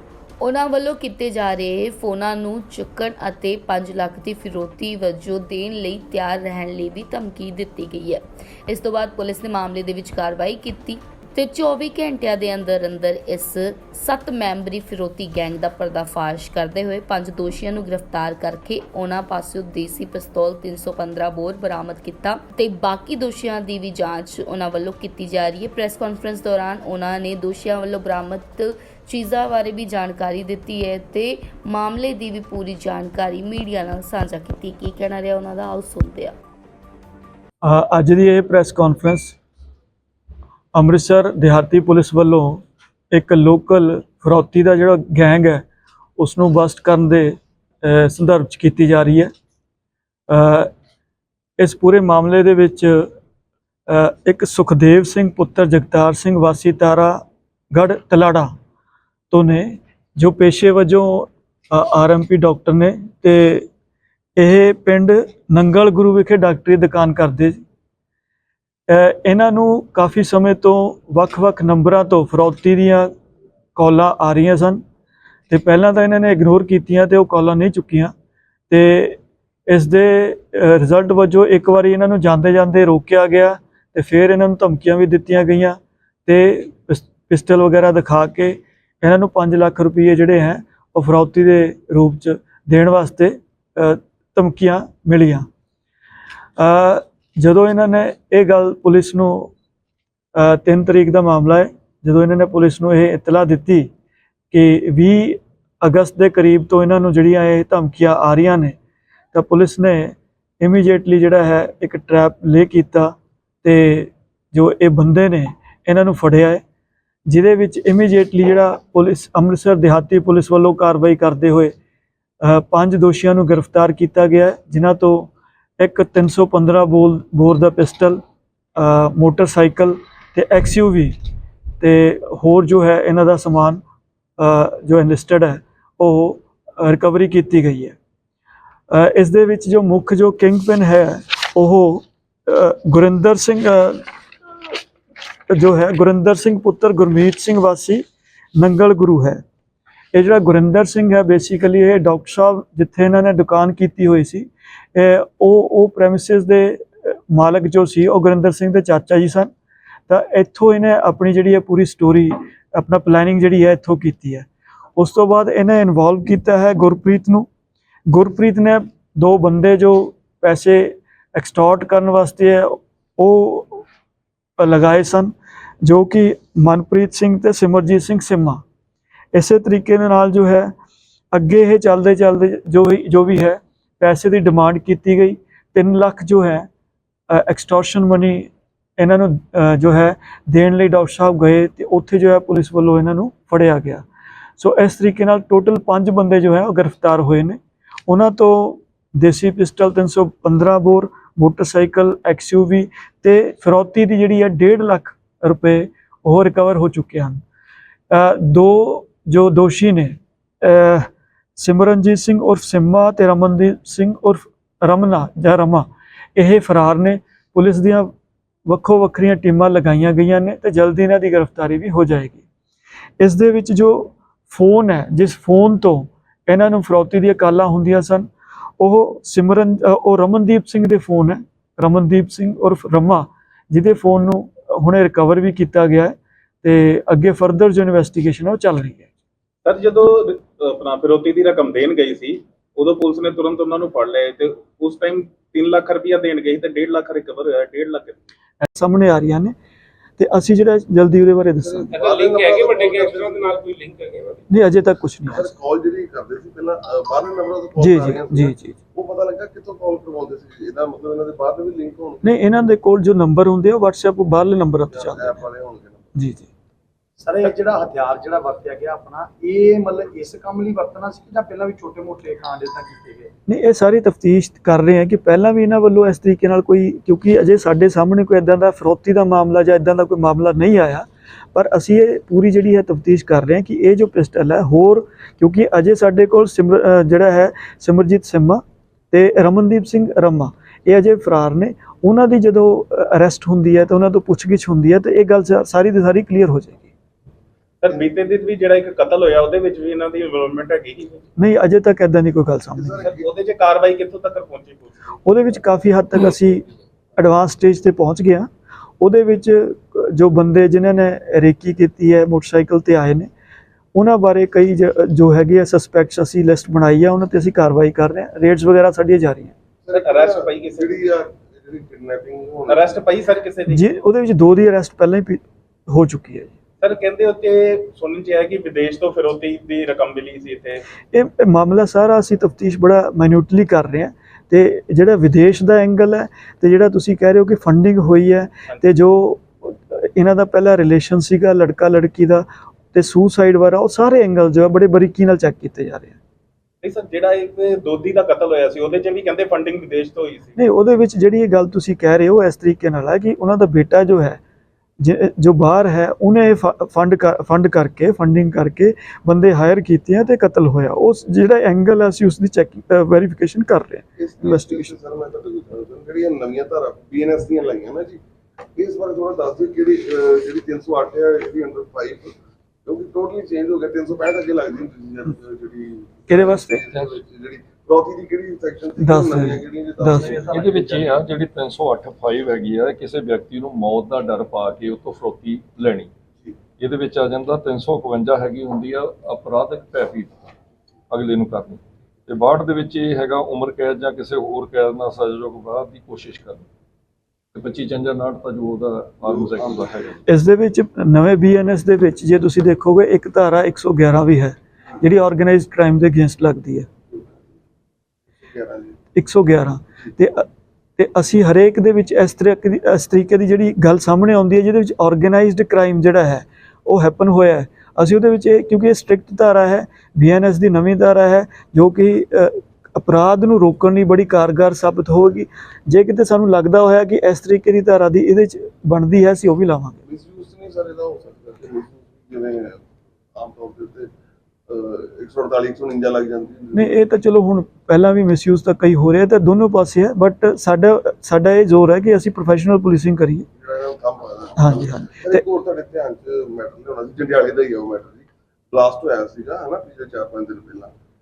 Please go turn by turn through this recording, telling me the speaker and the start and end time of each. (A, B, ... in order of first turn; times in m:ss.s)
0:00.4-0:36.3 A
0:37.6-0:39.4 B
0:40.7-0:45.6 B
0:46.2-0:49.3 B
0:50.3-0:50.7 B
0:51.6-0:53.1 B
0:53.9-0:58.5 B
0:59.3-1:03.7 B
1:04.4-1:07.6 B
1:08.9-1:13.1 B
1:13.8-1:14.8 B
1:15.5-1:18.1 B
1:18.7-1:35.4 B
1:36.6-1:39.5 B
1:40.4-1:43.9 B
1:44.5-1:48.8 B
1:49.3-1:56.6 B
1:57.3-2:01.7 B
2:02.4-2:08.2 B
2:08.8-2:11.1 B
2:11.8-2:13.8 B
2:14.4-2:18.0 B
2:18.9-2:24.0 B
2:25.5-2:28.0 B
2:28.6-2:29.4 B
2:30.1-2:39.5 B
2:40.1-2:47.5 B
2:48.1-2:53.8 B
2:54.6-2:58.6 B
2:59.3-3:00.7 B
3:01.3-3:06.7 B
3:07.3-3:14.0 B
3:14.6-3:27.4 B
3:28.1-3:38.1 B
3:38.6-3:42.4 B
3:43.2-3:59.1 B
3:59.6-4:08.2 C
4:08.6-4:09.5 B
4:10.2-4:11.9 B
4:11.6-4:13.6 D
4:12.0-4:14.4 E
4:14.5-4:15.5 B
4:15.3-4:22.3 D
4:17.8-4:18.8 B
4:22.2-4:25.4 B
4:24.9-4:26.1 D
4:26.1-4:26.5 B
4:27.2-4:33.3 F
4:33.5-4:56.9 B
4:57.8-5:01.2 C
5:01.4-5:03.1 B
5:02.8-5:03.3 D
5:03.1-5:05.1 C
5:05.2-5:06.6 B
5:07.2-5:08.5 B
5:09.0-5:13.3 B
5:13.9-5:19.5 B
5:19.8-5:23.0 D
5:19.9-5:21.0 C
5:22.7-5:23.8 C
5:23.7-5:26.5 B
5:26.8-5:30.8 C
5:31.1-5:46.2 B
5:46.8-5:50.5 C
5:50.6-5:54.4 B
5:55.0-6:04.9 B
6:04.2-6:08.2 D
6:08.8-6:12.3 D
6:12.8-6:20.8 D
6:16.3-6:16.8 B
6:16.9-6:17.2 G
6:19.0-6:20.4 B
6:20.5-6:21.1 F
6:20.5-6:26.1 G
6:26.8-6:30.4 G
6:31.1-6:36.7 G
6:37.5-6:40.2 G
6:39.2-6:39.9 D
6:40.3-6:46.9 B
6:47.1-6:47.4 D
6:48.4-6:49.0 D
6:49.1-7:10.0 B
7:10.0-7:12.8 D
7:13.3-7:14.1 D
7:14.7-7:16.9 D
7:16.7-7:23.5 B
7:23.5-7:30.9 D
7:24.6-7:25.4 B